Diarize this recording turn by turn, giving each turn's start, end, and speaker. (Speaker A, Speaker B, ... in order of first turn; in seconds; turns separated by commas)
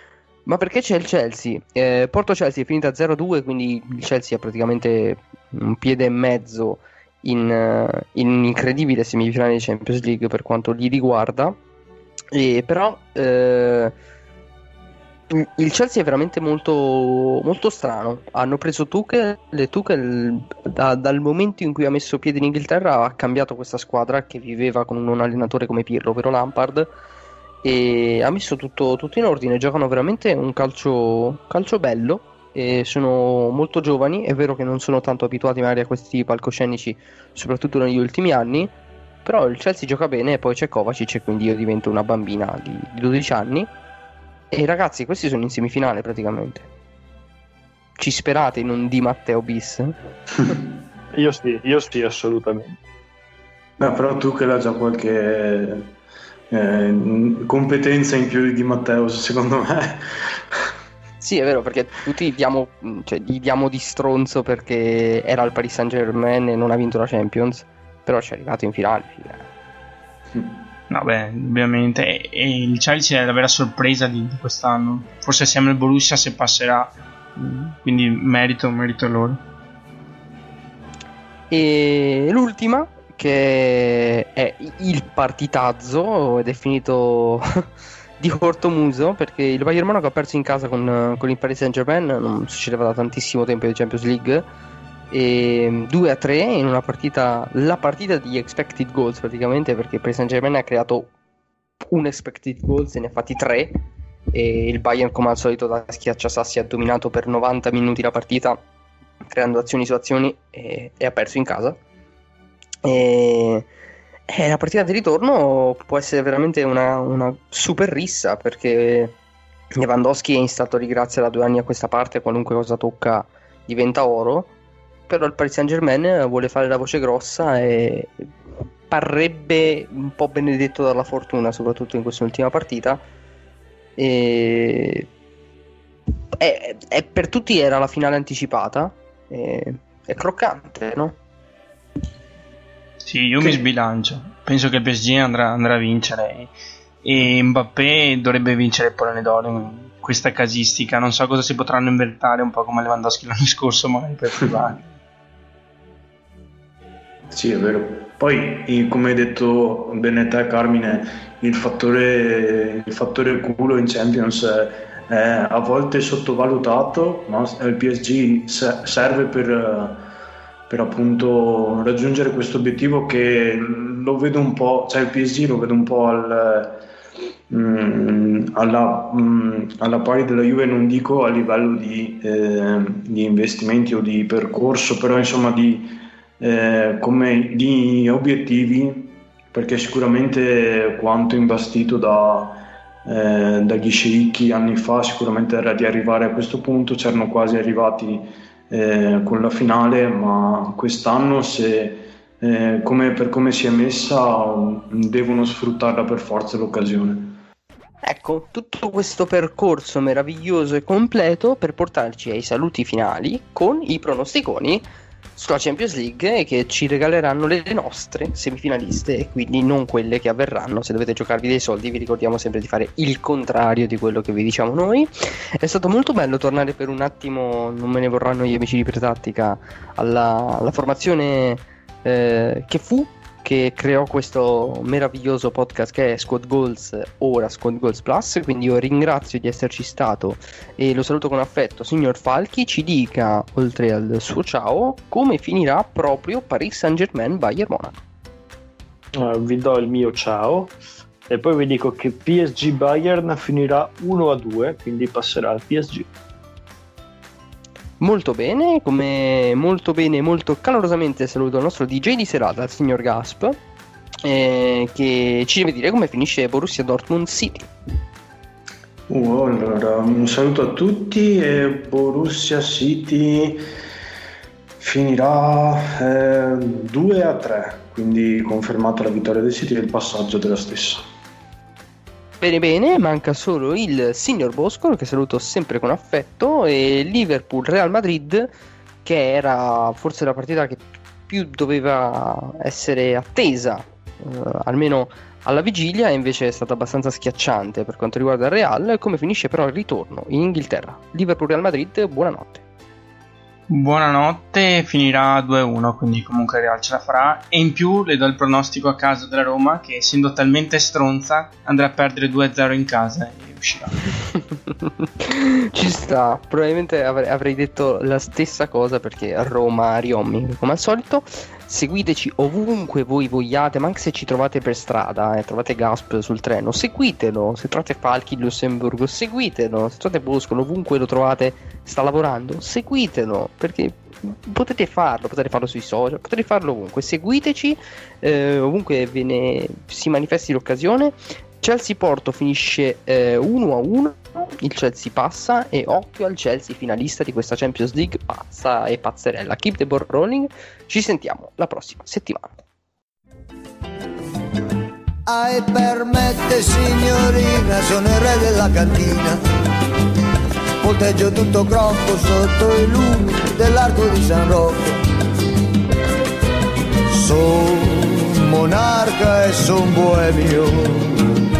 Speaker A: 0.5-11.6, Speaker A: 12.3-13.9, Speaker A: 15.3-26.9, Speaker A: 27.6-38.7, Speaker A: 39.2-43.7, Speaker A: 44.5-46.7, Speaker A: 48.0-49.9, Speaker B: 51.1-52.8, Speaker C: 53.8-55.9, Speaker C: 56.5-60.6, Speaker A: 61.2-69.5, Speaker D: 70.9-79.4, Speaker A: 81.5-87.7, Speaker A: 88.2-94.5, Speaker A: 95.1-101.1, Speaker A: 101.8-103.7, Speaker A: 104.3-108.6, Speaker A: 109.3-111.8, Speaker A: 112.8-113.7, Speaker A: 114.3-119.1, Speaker A: 119.7-124.5, Speaker A: 125.1-128.3, Speaker A: 128.9-133.0, Speaker A: 134.0-135.1, Speaker A: 136.3-141.2, Speaker D: 143.1-146.5, Speaker D: 147.0-154.8, Speaker C: 157.3-170.0, Speaker C: 170.7-176.8, Speaker C: 177.5-207.4, Speaker A: 208.0-214.8, Speaker A: 215.3-248.0, Speaker B: 249.2-250.8, Speaker B: 251.3-256.1, Speaker A: 258.0-263.6, Speaker A: 264.2-267.7, Speaker C: 269.1-273.6, Speaker C: 274.8-281.0, Speaker A: 282.4-288.5, Speaker A: 289.0-302.6, Speaker D: 303.7-314.0, Speaker A: 314.8-352.5, Speaker E: 355.3-359.4, Speaker E: 360.8-365.0, Speaker E: 367.1-371.3